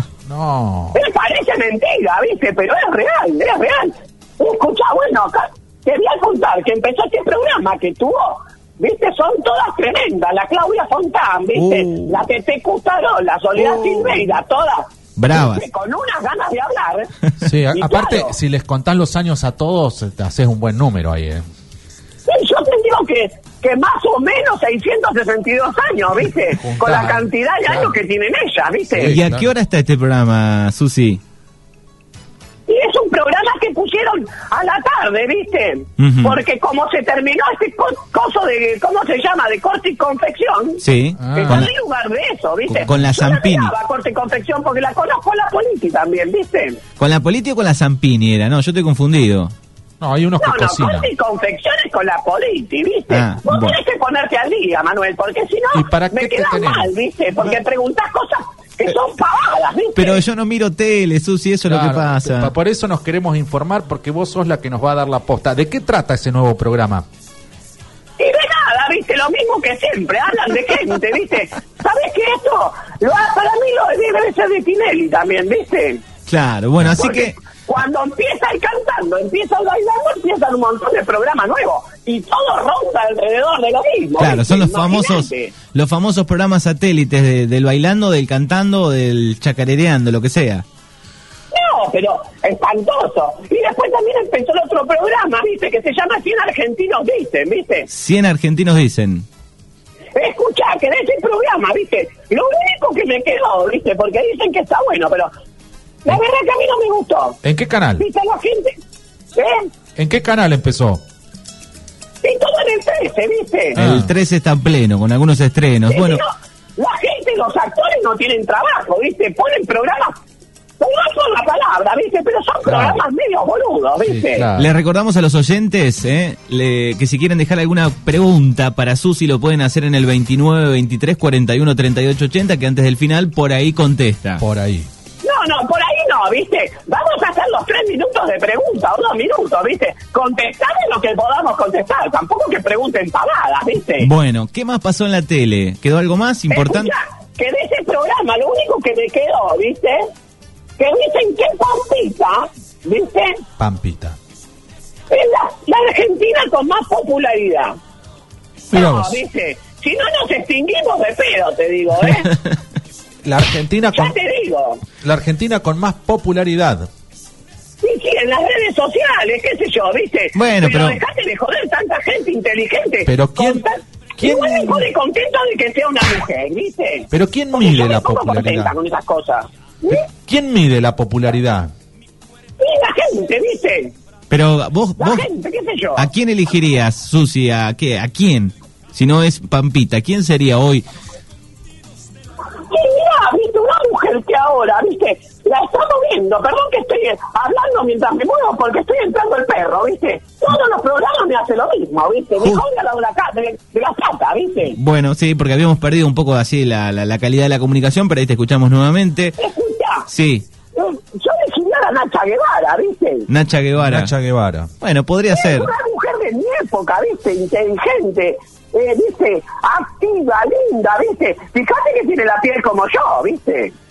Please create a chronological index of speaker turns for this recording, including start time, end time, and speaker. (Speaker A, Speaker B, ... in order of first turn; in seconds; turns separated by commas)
Speaker A: 0.3-1.0, Speaker B: 0.9-17.1, Speaker C: 11.5-12.3, Speaker C: 13.6-14.3, Speaker C: 15.2-15.6, Speaker A: 17.4-21.4, Speaker B: 17.7-18.4, Speaker B: 22.3-29.2, Speaker A: 26.6-27.9, Speaker A: 28.9-29.5, Speaker C: 29.0-31.2, Speaker B: 32.7-46.8, Speaker C: 36.0-36.4, Speaker C: 40.8-41.7, Speaker A: 41.2-41.7, Speaker C: 42.7-43.7, Speaker C: 47.0-49.5, Speaker A: 50.0-51.1, Speaker B: 50.4-60.2, Speaker C: 53.1-53.8, Speaker A: 55.7-56.9, Speaker C: 60.0-62.5, Speaker A: 61.7-67.1, Speaker B: 68.2-76.0, Speaker C: 76.3-77.3, Speaker B: 77.0-85.5, Speaker C: 84.2-90.7, Speaker B: 91.5-97.9, Speaker C: 97.9-99.3, Speaker B: 100.2-105.3, Speaker B: 106.0-107.4, Speaker A: 107.4-108.0, Speaker B: 108.0-108.8, Speaker B: 109.4-109.7, Speaker A: 110.0-111.0, Speaker B: 112.2-113.8, Speaker A: 113.8-114.1, Speaker C: 113.8-116.2, Speaker B: 115.9-120.2, Speaker B: 120.8-124.5, Speaker A: 122.7-123.0, Speaker A: 124.0-124.7, Speaker C: 124.6-134.4, Speaker A: 134.4-134.9, Speaker B: 135.2-144.1, Speaker C: 144.0-146.9, Speaker B: 146.5-150.1, Speaker B: 150.8-153.4, Speaker A: 153.6-154.2, Speaker B: 155.1-157.8, Speaker A: 158.7-159.2, Speaker B: 158.7-162.3, Speaker A: 163.2-164.2, Speaker B: 163.9-164.8, Speaker A: 165.0-166.9, Speaker B: 167.8-180.1, Speaker C: 170.3-171.0, Speaker A: 173.1-173.7, Speaker A: 174.2-174.8, Speaker A: 177.1-178.8, Speaker A: 179.9-181.7, Speaker B: 182.6-183.9, Speaker C: 184.3-185.3, Speaker B: 185.0-186.1, Speaker C: 186.0-190.8, Speaker B: 192.7-204.8, Speaker C: 204.7-209.4, Speaker B: 209.4-210.1, Speaker C: 210.1-210.4, Speaker B: 210.8-213.3, Speaker C: 213.3-214.1, Speaker A: 213.8-214.7, Speaker C: 214.8-215.7, Speaker B: 215.3-223.7